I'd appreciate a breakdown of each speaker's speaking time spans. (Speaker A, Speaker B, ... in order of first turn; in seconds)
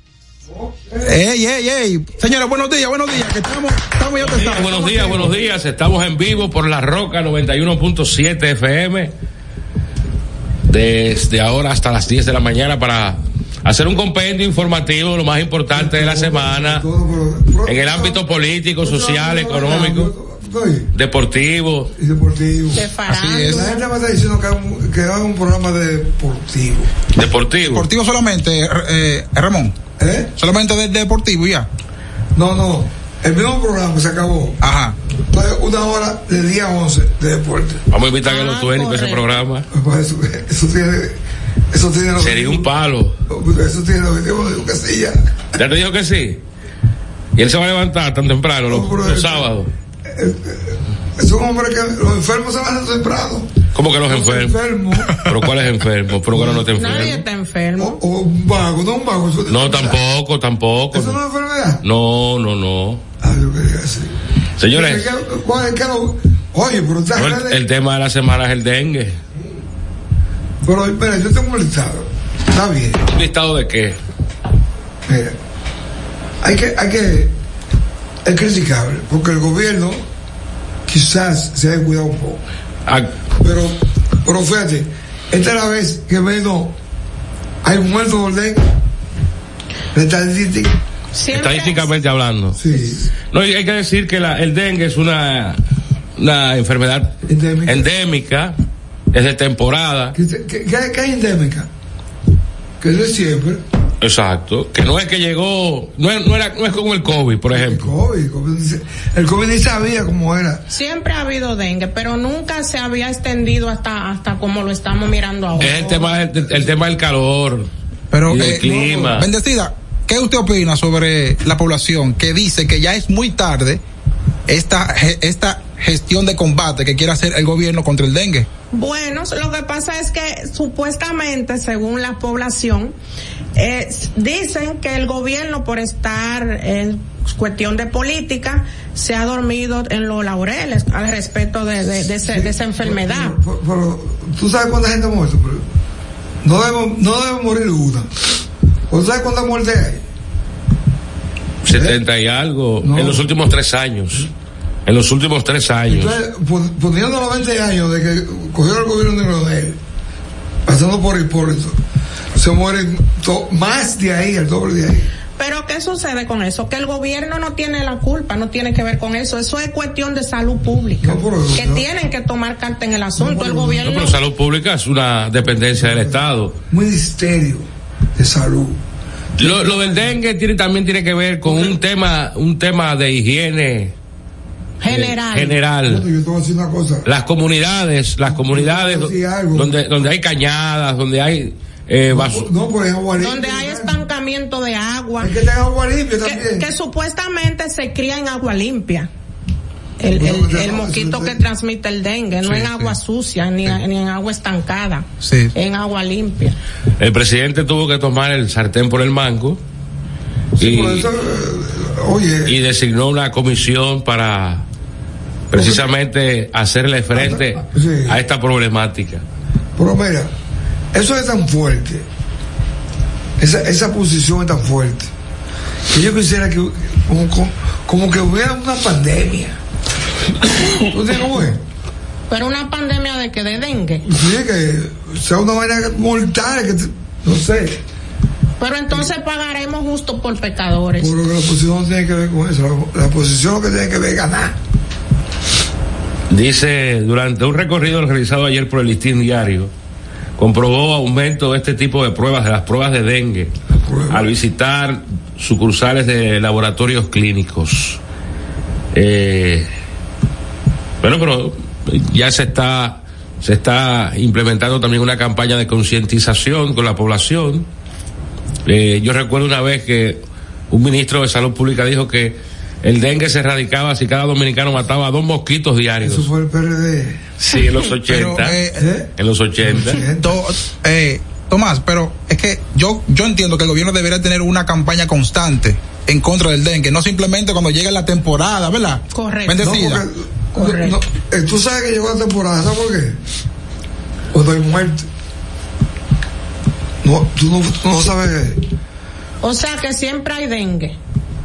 Speaker A: 1.0-5.3, 23.1-23.7, 27.6-29.8, 30.4-31.7, 34.6-35.0, 118.1-123.8, 124.5-128.5, 202.5-202.9, 205.2-205.5, 278.1-278.9, 280.2-290.1
Speaker B: 4.2-9.1, 10.7-16.9, 17.7-20.1, 20.9-21.9, 27.2-27.9, 37.9-39.7, 42.2-43.2, 45.5-46.4, 47.4-49.7, 53.7-54.6, 55.2-57.2, 59.5-61.2, 61.8-63.0, 64.6-65.1, 67.2-69.2, 73.1-74.0, 91.3-92.6, 93.3-95.6, 96.2-97.2, 97.7-98.6, 99.1-100.2, 104.0-107.9, 115.6-117.7, 118.3-119.3, 151.6-154.3, 154.9-156.2, 173.8-176.5, 179.4-183.9, 184.9-186.1, 187.1-192.5, 207.0-209.6, 210.6-211.1, 212.5-214.7, 215.5-219.2, 246.3-249.7, 250.4-253.5, 254.1-258.0, 258.9-259.7, 261.0-267.7, 268.6-270.2, 270.7-276.3, 277.4-278.6, 279.2-280.0
Speaker C: 15.7-18.2, 18.8-20.9, 22.0-22.9, 23.4-26.9, 30.0-30.3, 32.4-34.6, 35.3-37.8, 39.7-41.2, 41.7-42.7, 43.3-45.2, 48.7-49.5, 50.1-53.5, 54.1-55.3, 56.3-57.1, 57.8-60.0, 60.9-61.8, 63.2-64.2, 64.7-67.6, 70.6-73.0, 75.1-75.4, 76.4-77.3, 78.2-80.0, 80.9-82.4, 83.4-86.8, 87.6-88.7, 89.9-90.8, 92.6-93.1, 97.3-97.9, 100.2-101.7, 102.8-103.6, 107.5-110.6, 115.6-116.8, 142.2-145.7, 146.4-148.1, 148.9-150.0, 151.7-152.0, 152.8-153.3, 155.9-159.8, 160.7-161.8, 162.3-165.1, 171.0-171.9, 173.2-173.9, 175.8-178.8, 179.4-180.1, 181.4-181.8, 185.8-187.1, 188.3-189.8, 192.1-194.0, 195.2-196.7, 200.1-201.4, 210.6-212.6, 215.5-215.8, 217.1-218.2, 219.8-220.3, 220.9-222.1, 223.4-225.1, 225.9-229.6, 230.8-231.6, 234.1-237.8, 241.0-244.6, 253.8-254.3, 276.0-277.2, 278.8-279.1, 279.6-280.4, 289.6-293.2, 294.3-295.1, 297.0-298.6
Speaker D: 22.7-23.9, 38.2-39.3, 56.7-58.0, 91.1-91.9, 110.7-115.7, 128.7-132.9, 133.6-143.4, 165.4-174.2, 184.8-185.6, 193.2-195.3, 196.2-199.1, 200.0-206.6, 232.3-234.1, 238.6-241.2, 289.1-289.6, 290.6-291.0, 299.4-301.0